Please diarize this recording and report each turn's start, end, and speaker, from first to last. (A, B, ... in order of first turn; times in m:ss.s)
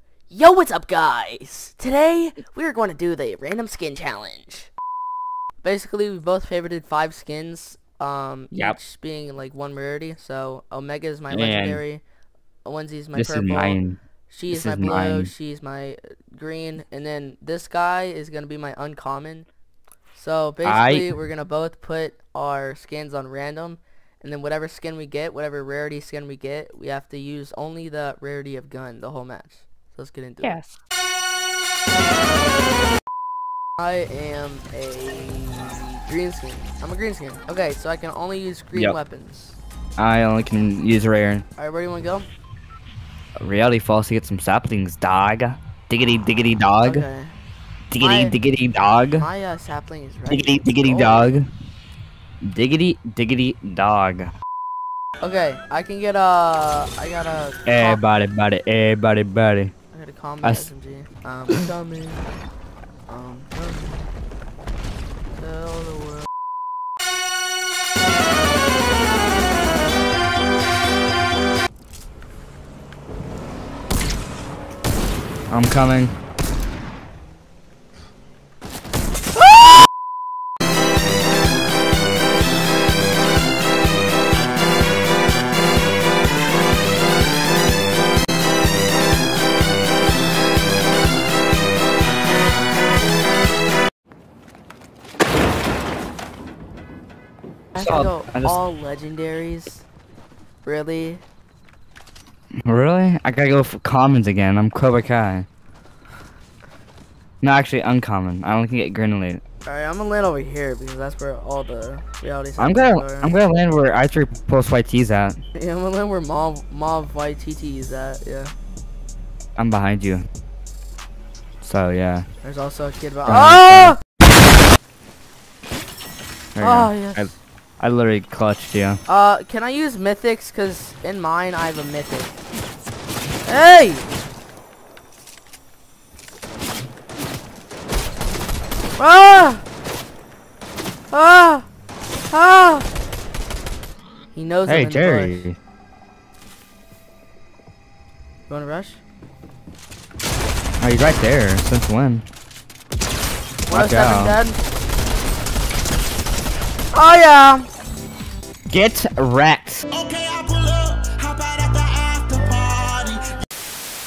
0:00.3-0:04.7 A
0:05.6-0:12.0 A
0:08.5-0:08.8 B
0:11.3-0:11.8 B
0:12.6-0:19.5 A
0:13.1-0:14.0 B
0:14.5-0:15.3 B
0:20.1-0:30.6 A
0:20.6-0:21.1 B
0:33.8-0:39.6 A
0:40.0-0:41.4 B
0:41.6-0:42.3 A
0:43.4-0:47.0 B
0:46.8-0:47.3 A
0:47.9-0:49.2 B
0:48.0-0:48.4 A
0:49.2-0:51.3 A
0:50.3-0:51.5 B
0:52.4-0:54.3 B
0:55.2-0:58.0 A
0:57.6-0:59.7 B
0:59.9-1:02.2 A
1:00.4-1:00.7 B
1:03.1-1:04.0 A
1:05.4-1:06.2 A
1:15.5-1:16.1 B
1:37.7-1:39.8 A
1:37.8-1:38.6 B
1:40.6-1:41.2 A
1:42.6-1:45.5 B
1:47.4-1:49.4 B
1:49.6-1:53.3 A
1:52.6-1:55.4 B
1:55.5-1:58.5 A
1:59.6-2:00.2 B
2:01.6-2:02.2 B
2:02.4-2:04.0 A
2:03.2-2:03.9 B
2:06.6-2:09.0 B
2:06.6-2:07.4 A
2:09.1-2:12.3 A
2:13.4-2:14.0 A
2:19.0-2:19.6 A
2:21.1-2:21.6 A
2:22.3-2:22.8 A
2:24.3-2:25.4 A
2:24.7-2:25.6 B
2:28.5-2:29.0 A
2:30.8-2:32.2 B
2:33.6-2:34.6 A
2:33.7-2:34.4 B
2:36.9-2:37.7 A
2:38.7-2:39.8 B
2:39.9-2:43.3 C